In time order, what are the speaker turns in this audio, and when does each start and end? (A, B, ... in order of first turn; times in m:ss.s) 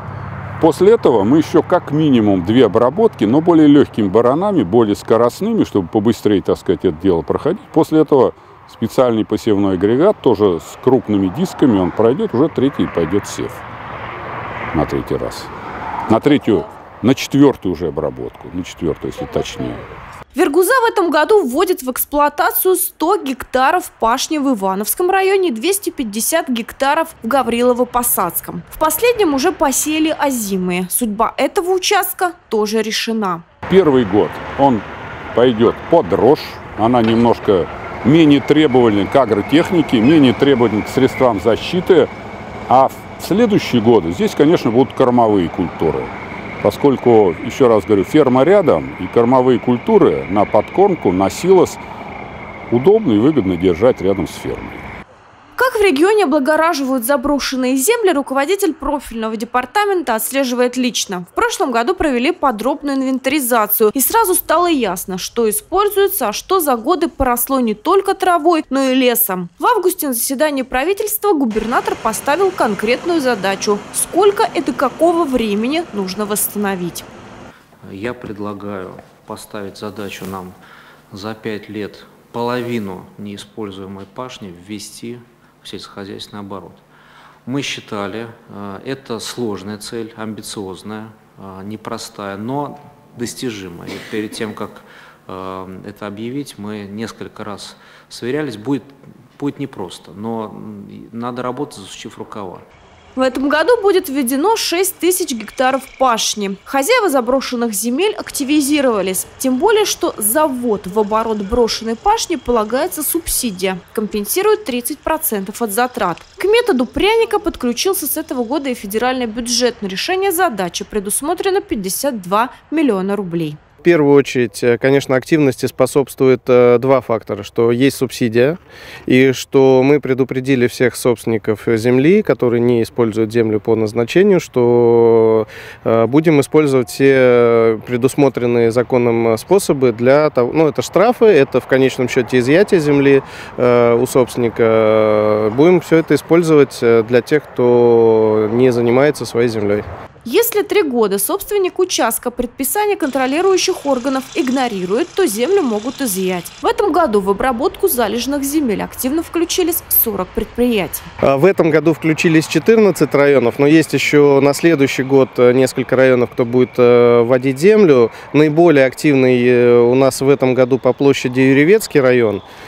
0:00.6-0:13.6 A
0:14.7-0:15.5 A
0:16.1-0:19.8 A
0:20.3-0:33.4 B
0:33.7-0:42.1 A
0:42.7-0:51.8 A
0:52.7-0:54.8 A
0:55.6-1:17.1 B
1:17.8-1:20.6 C
1:21.1-1:26.8 C
1:27.4-1:42.6 C
1:43.2-2:03.6 B
2:03.8-2:29.8 D
2:30.2-2:41.1 B
2:41.2-2:52.4 D